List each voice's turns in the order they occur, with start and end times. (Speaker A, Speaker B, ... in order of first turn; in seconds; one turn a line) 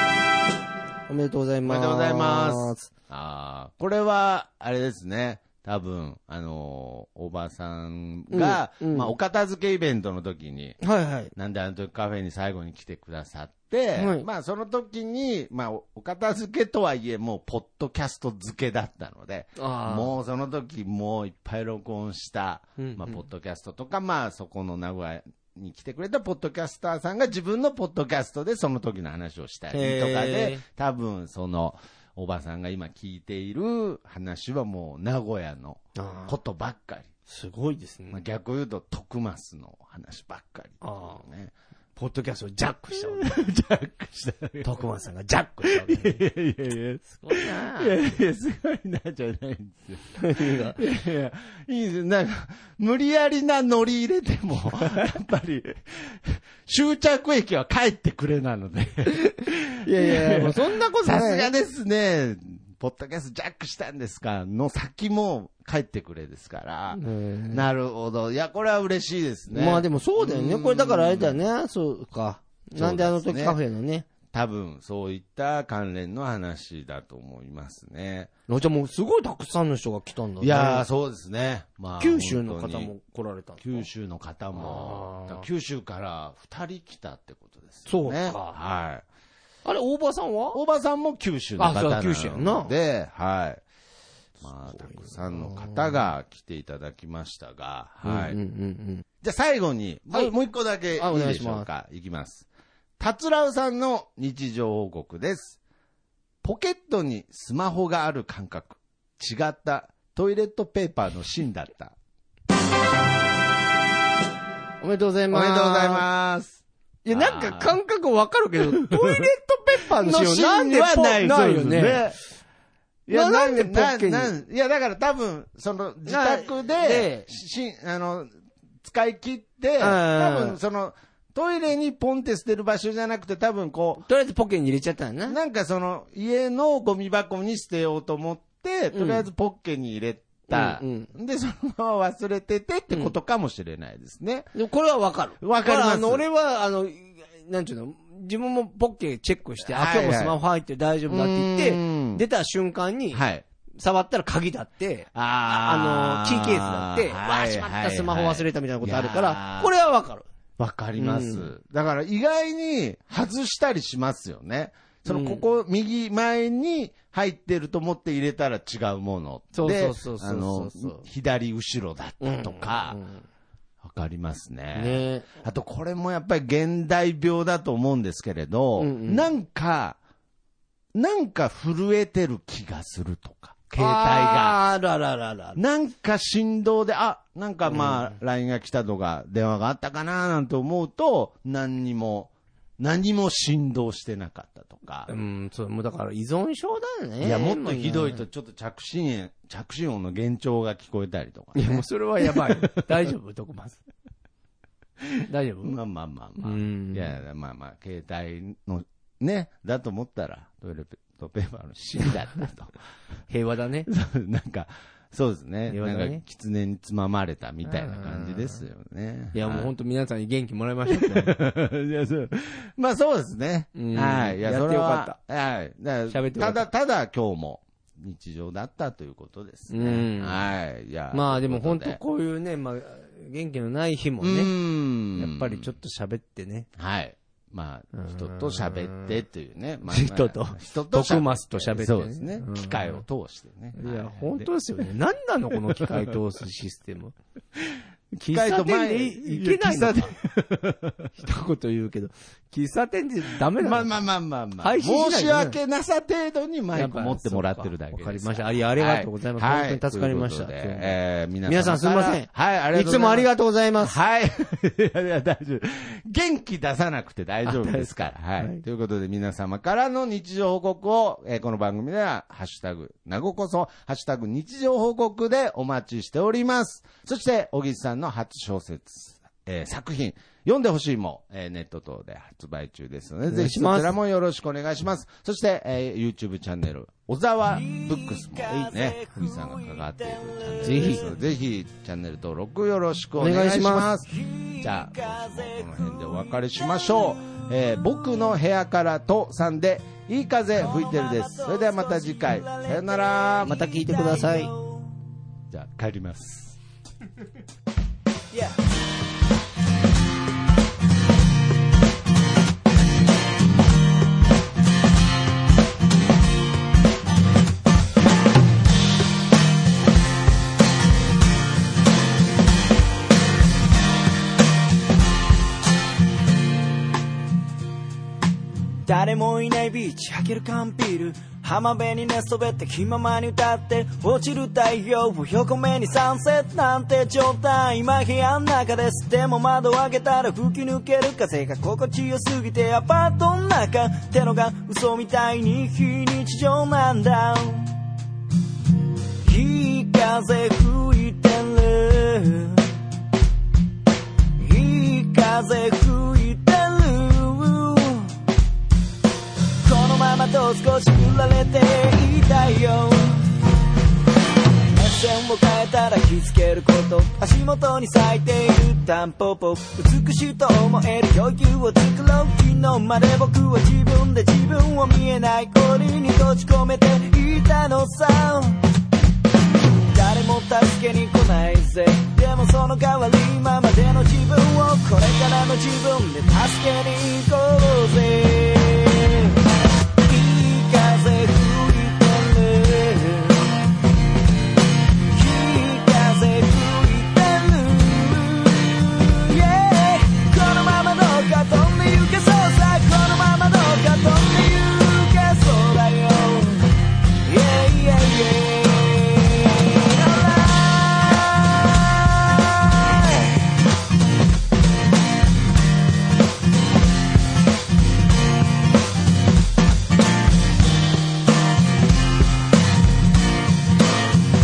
Speaker A: 1.1-2.9
Speaker B: 1.6-10.8
Speaker A: 8.3-9.1
Speaker A: 10.8-11.3
Speaker B: 11.3-37.1
Speaker A: 13.9-14.3
Speaker A: 19.6-20.1
Speaker A: 22.8-23.2
Speaker A: 29.7-30.6
Speaker A: 36.0-36.4
Speaker A: 37.3-38.2
Speaker B: 38.1-41.5
Speaker A: 40.8-41.2
Speaker A: 42.0-43.4
Speaker B: 42.9-44.8
Speaker A: 44.6-46.2
Speaker B: 45.6-71.4
Speaker A: 47.1-48.0
Speaker A: 50.2-50.8
Speaker A: 59.8-61.5
Speaker A: 66.9-67.6
Speaker A: 69.5-74.1
Speaker B: 72.8-73.6
Speaker B: 74.3-78.3
Speaker A: 78.5-80.8
Speaker B: 80.4-82.9
Speaker A: 82.0-83.9
Speaker B: 83.6-89.0
Speaker A: 84.5-85.5
Speaker A: 87.8-88.6
Speaker A: 89.6-90.6
Speaker B: 90.5-93.6
Speaker A: 91.6-92.7
Speaker B: 94.4-98.4
Speaker A: 94.7-96.0
Speaker A: 98.0-99.0
Speaker B: 99.2-102.5
Speaker A: 100.9-101.7
Speaker B: 103.0-105.6
Speaker B: 106.4-111.9
Speaker A: 114.8-116.0
Speaker B: 115.3-117.8
Speaker A: 117.0-122.1
Speaker B: 118.6-119.3
Speaker B: 119.9-122.2
Speaker B: 123.1-128.3
Speaker A: 123.1-124.4
Speaker A: 126.0-127.2
Speaker B: 128.8-134.0
Speaker A: 129.8-130.6
Speaker A: 134.0-135.4
Speaker B: 135.3-144.5
Speaker A: 138.9-139.3
Speaker A: 140.5-141.1
Speaker A: 144.5-153.2
Speaker B: 145.4-146.2
Speaker B: 149.6-150.4
Speaker B: 151.1-152.2
Speaker B: 153.1-153.4
Speaker A: 153.8-160.3
Speaker B: 155.1-159.7
Speaker B: 160.6-173.0
Speaker A: 161.0-161.5
Speaker A: 165.1-165.4
Speaker A: 169.5-171.0
Speaker A: 172.2-173.2
Speaker B: 173.8-180.0
Speaker A: 174.7-175.3
Speaker A: 178.8-179.3
Speaker B: 180.9-184.6
Speaker A: 183.8-185.6
Speaker B: 185.6-195.1
Speaker A: 187.7-188.1
Speaker A: 195.1-198.2
Speaker B: 197.2-203.1
Speaker A: 201.5-203.8
Speaker B: 205.0-212.7
Speaker A: 205.2-205.8
Speaker A: 206.4-207.2
Speaker A: 213.3-213.9
Speaker B: 213.9-219.7
Speaker A: 215.7-216.2
Speaker A: 217.7-218.6
Speaker A: 219.3-221.3
Speaker B: 220.9-232.0
Speaker A: 223.7-225.2
Speaker A: 226.1-226.7
Speaker A: 229.7-230.4
Speaker A: 231.1-234.5
Speaker B: 234.2-235.7
Speaker A: 235.2-236.7
Speaker B: 236.8-244.5
Speaker A: 237.9-239.1
Speaker A: 239.8-243.0
Speaker A: 243.8-247.1
Speaker B: 245.8-246.1
Speaker B: 247.6-251.1
Speaker A: 248.2-250.1
Speaker A: 251.2-254.1
Speaker B: 253.5-303.6
Speaker A: 254.6-255.6
Speaker A: 256.7-260.9
Speaker A: 261.4-264.0
Speaker A: 267.4-268.6
Speaker A: 283.3-283.9
Speaker C: 287.5-291.0
Speaker A: 290.6-291.0
Speaker A: 293.1-293.9
Speaker C: 294.1-296.9
Speaker C: 300.6-304.9
Speaker A: 303.4-304.5
Speaker B: 305.5-306.6
Speaker C: 328.8-347.8
Speaker C: 349.2-352.7
Speaker C: 354.4-358.2
Speaker C: 359.6-363.3
Speaker C: 364.7-378.6
Speaker C: 379.9-389.4
Speaker C: 390.0-393.6
Speaker C: 395.1-413.4